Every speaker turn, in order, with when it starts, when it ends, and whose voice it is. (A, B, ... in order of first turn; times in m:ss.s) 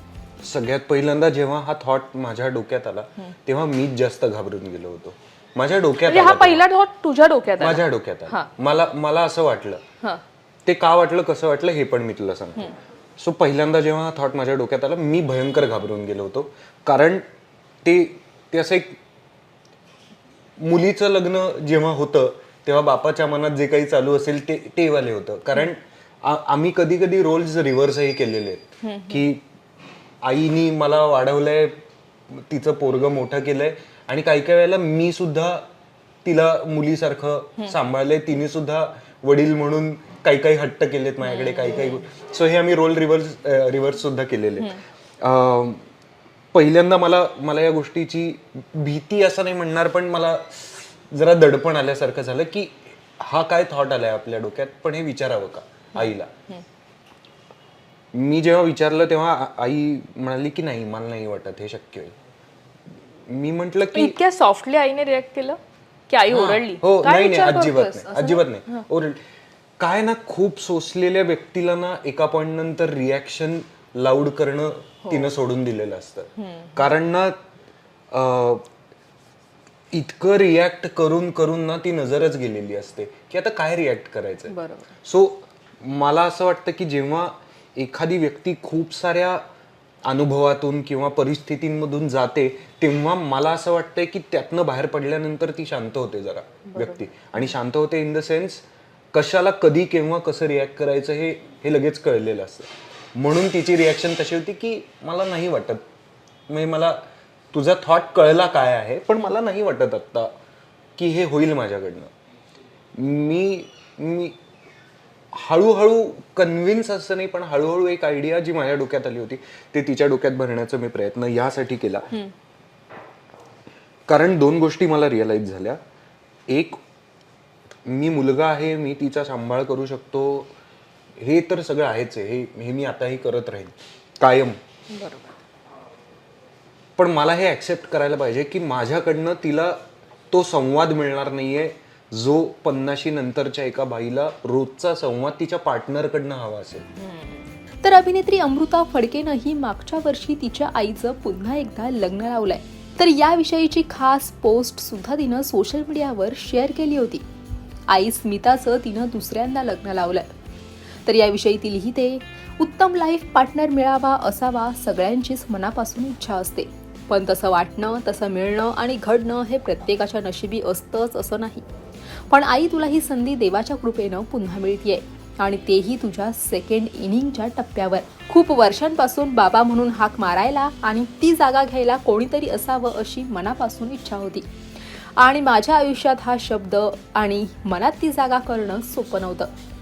0:00.4-0:06.6 A
0:06.0-0:08.5 B
0:07.6-0:09.8 A
0:10.6-0:17.2 A
0:17.8-0:19.0 A
0:20.6-0:29.4 A
0:28.8-0:29.2 B
0:30.2-0:35.6 A
0:36.2-0:45.8 A
0:41.4-0:42.0 B
0:46.5-0:56.3 A
0:58.1-1:02.1 A
1:03.3-1:04.2 A
1:03.9-1:05.6 B
1:06.1-1:08.4 B
1:06.3-1:09.2 A
1:07.0-1:08.3 C
1:09.8-1:17.4 A
1:16.6-1:16.8 B
1:18.1-1:18.6 A
1:19.9-1:29.4 A
1:30.0-1:45.8 A
1:46.5-1:47.0 A
1:47.5-1:50.3 A
1:51.0-1:52.1 A
1:52.9-1:54.4 A
1:55.3-2:02.2 A
2:04.1-2:05.8 A
2:06.5-2:06.8 A
2:07.8-2:10.5 A
2:11.2-2:14.6 A
2:14.9-2:15.3 B
2:17.0-2:26.9 A
2:27.0-2:27.4 B
2:27.8-2:37.2 C
2:37.9-2:40.3 C
2:41.0-2:51.6 C
2:52.3-3:04.5 C
3:05.2-3:09.5 C